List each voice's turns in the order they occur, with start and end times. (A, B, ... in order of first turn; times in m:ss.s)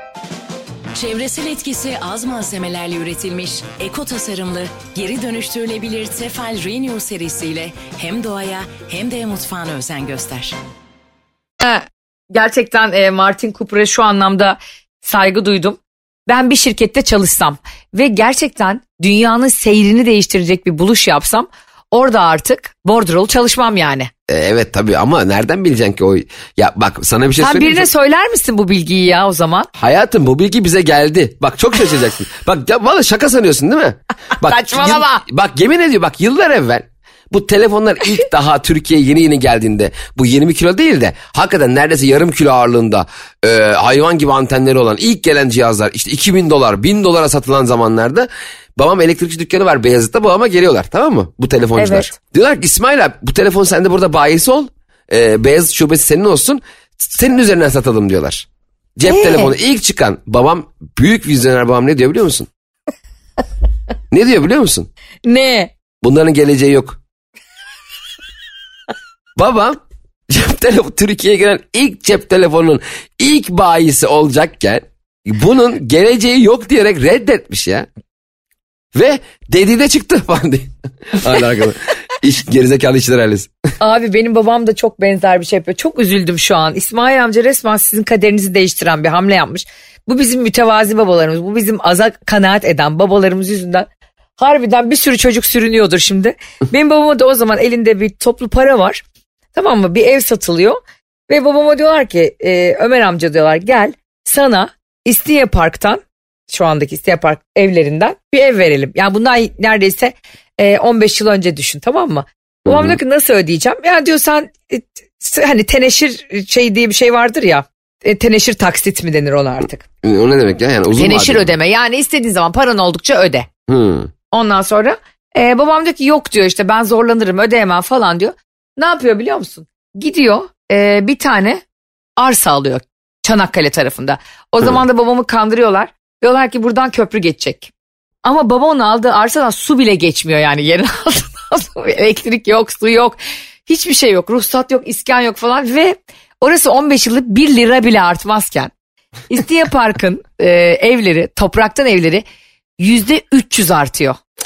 0:00.9-0:10.6 A
0:11.6-0:24.1 B
0:24.3-0:27.9 C
0:27.4-0:29.7 B
0:29.7-1:02.5 C
0:34.4-0:35.2 B
0:51.8-0:52.1 B
0:59.1-0:59.5 B
1:04.1-1:04.9 C
1:05.2-1:05.7 B
1:06.0-1:07.0 C
1:09.4-1:17.9 C
1:18.9-1:23.5 C
1:23.8-1:33.9 B
1:34.4-1:39.0 B
1:39.5-1:59.8 B
1:52.6-1:53.0 C
2:00.0-2:01.5 C
2:01.0-2:03.5 B
2:03.7-2:04.1 C
2:04.3-2:11.6 B
2:12.2-2:17.7 B
2:18.2-2:28.7 B
2:29.3-2:32.2 B
2:32.8-2:34.2 B